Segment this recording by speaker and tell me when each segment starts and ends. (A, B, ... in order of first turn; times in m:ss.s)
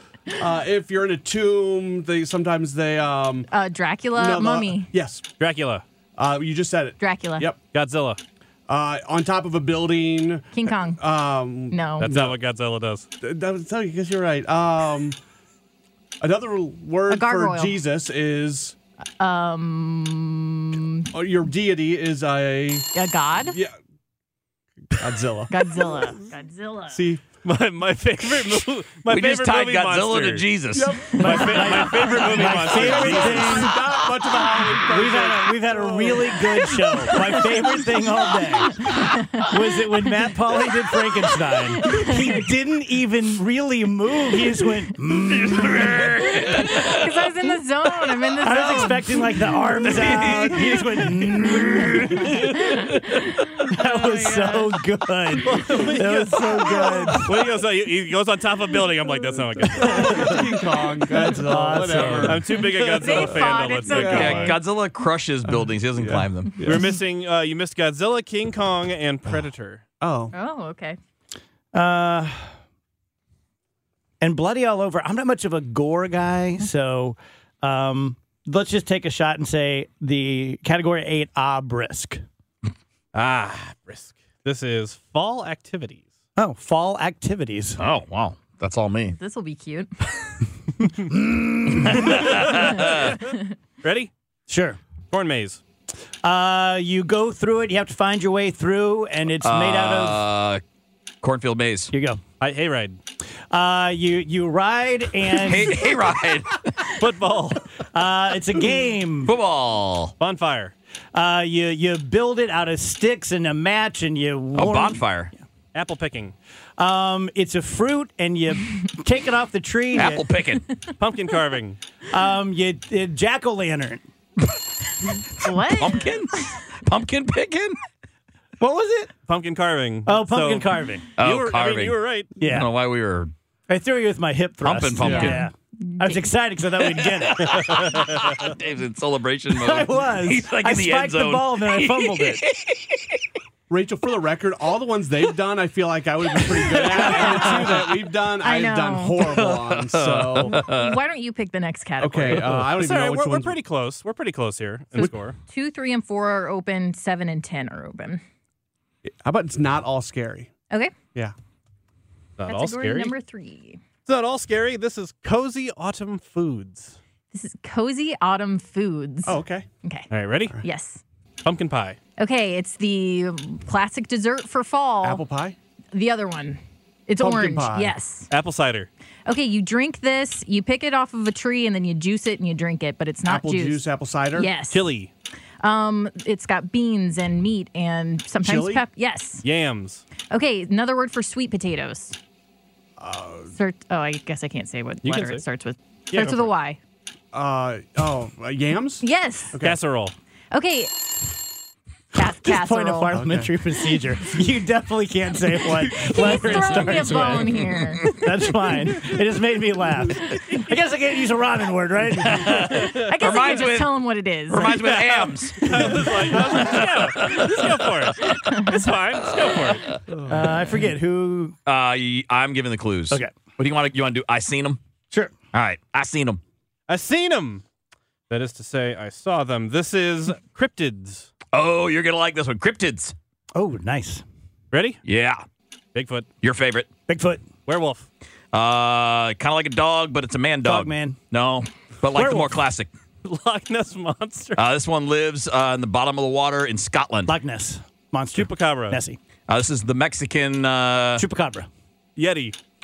0:00.4-0:03.5 A
0:03.5-0:04.9 B
0:04.1-0:05.2 A
0:05.4-0:05.8 C
0:06.2-0:07.6 A
0:07.0-0:07.5 B
0:07.7-0:08.2 C
0:08.7-0:12.4 A
0:10.6-0:11.0 B
0:11.7-0:12.1 B
0:12.0-0:13.1 C
0:13.2-0:15.2 A
0:16.2-0:18.8 A
0:17.1-0:17.8 B
0:19.2-0:21.1 B
0:21.1-0:22.9 A
0:22.9-0:23.6 B
0:23.4-0:23.8 A
0:24.9-0:26.1 A
0:25.5-0:27.0 B
0:26.9-0:27.2 A
0:27.4-0:30.5 C
0:29.1-0:31.1 D
0:30.7-0:36.4 A
0:31.1-0:33.7 C
0:31.2-0:33.8 E
0:34.9-0:38.8 E
0:38.9-0:39.6 B
0:39.4-0:46.1 E
0:41.8-0:42.2 B
0:45.3-0:47.3 D
0:46.6-0:49.2 B
0:48.4-0:52.8 E
0:49.9-0:51.9 D
0:53.4-0:54.8 B
0:53.6-0:57.3 E
0:55.4-1:00.5 C
0:56.6-0:56.9 B
0:59.8-1:03.4 A
1:01.4-1:02.4 E
1:01.9-1:04.6 C
1:02.9-1:04.6 B
1:03.9-1:04.5 A
1:03.9-1:06.7 D
1:05.5-1:06.9 A
1:06.6-1:09.8 C
1:10.0-1:10.3 A
1:10.3-1:11.0 B
1:11.7-1:12.5 E
1:14.2-1:22.2 E
1:23.1-1:26.1 C
1:26.4-1:27.8 E
1:27.8-1:29.2 D
1:29.1-1:30.4 B
1:31.0-1:32.3 E
1:31.9-1:33.2 D
1:32.8-1:33.4 B
1:33.8-1:34.1 C
1:34.5-1:34.8 E
1:35.1-1:35.6 C
1:36.2-1:40.2 E
1:39.4-1:40.6 D
1:41.2-1:41.9 D
1:41.9-1:42.2 E
1:42.4-1:43.0 C
1:43.5-1:45.7 E
1:45.4-1:47.0 D
1:47.0-1:47.6 C
1:47.9-1:49.3 E
1:49.3-1:50.2 D
1:50.2-1:50.7 C
1:51.1-1:55.0 E
1:54.6-1:55.3 D
1:55.7-1:56.4 C
1:56.8-2:00.2 E
1:59.9-2:00.7 D
2:01.0-2:01.8 C
2:02.1-2:04.0 E
2:05.4-2:06.1 B
2:05.4-2:07.8 D
2:08.6-2:09.1 E
2:09.3-2:12.3 C
2:10.1-2:11.0 E
2:11.2-2:13.3 D
2:12.4-2:12.7 E
2:13.7-2:17.5 E
2:14.6-2:15.5 D
2:15.0-2:15.4 A
2:15.1-2:15.4 B
2:17.0-2:23.2 D
2:17.4-2:18.4 C
2:19.5-2:22.4 E
2:23.7-2:30.7 A
2:26.4-2:27.0 D
2:27.2-2:27.5 B
2:28.4-2:29.2 B
2:29.3-2:31.0 D
2:30.5-2:32.6 B
2:32.0-2:33.6 A
2:32.7-2:35.4 C
2:35.5-2:38.2 B
2:39.0-2:40.5 A
2:42.4-2:43.1 C
2:42.5-2:43.8 B
2:44.1-2:47.0 C
2:47.3-2:51.0 B
2:49.3-2:49.7 A
2:50.1-2:50.6 C
2:51.4-2:52.0 C
2:52.2-2:55.2 B
2:55.0-2:55.6 A
2:55.9-2:58.3 B
2:57.2-2:57.9 A
2:58.3-2:58.9 C
2:59.3-3:03.8 B
3:03.2-3:04.5 A
3:04.4-3:04.9 B
3:04.7-3:05.1 C
3:05.6-3:09.4 B
3:08.4-3:08.8 A
3:09.4-3:10.0 C
3:10.3-3:12.2 B
3:13.0-3:13.5 A
3:13.5-3:16.8 B
3:15.0-3:15.4 C
3:16.1-3:16.5 C
3:17.3-3:19.8 A
3:19.0-3:19.6 B
3:19.6-3:20.2 C
3:20.5-3:21.2 B
3:22.2-3:23.2 B
3:22.2-3:32.8 E
3:23.1-3:23.5 A
3:25.8-3:28.3 B
3:32.3-3:38.3 D
3:32.5-3:34.8 B
3:34.7-3:40.0 C
3:38.3-3:38.8 B
3:40.1-3:40.5 A
3:40.3-3:41.6 E
3:41.7-3:44.8 D
3:45.5-3:46.4 D
3:46.9-3:47.6 C
3:48.3-3:51.3 C
3:51.5-3:53.1 D
3:53.6-3:54.2 E
3:54.7-3:55.0 C
3:55.0-3:55.4 D
3:55.9-3:56.3 C
3:56.4-3:56.9 D
3:57.1-3:57.4 E
3:57.7-3:58.1 C
3:58.5-4:02.9 D
4:00.6-4:01.2 E
4:02.1-4:02.6 E
4:03.2-4:04.6 C
4:04.6-4:07.3 D
4:07.3-4:09.2 E
4:08.3-4:09.0 C
4:09.5-4:11.2 D
4:11.2-4:11.7 E
4:12.2-4:12.6 C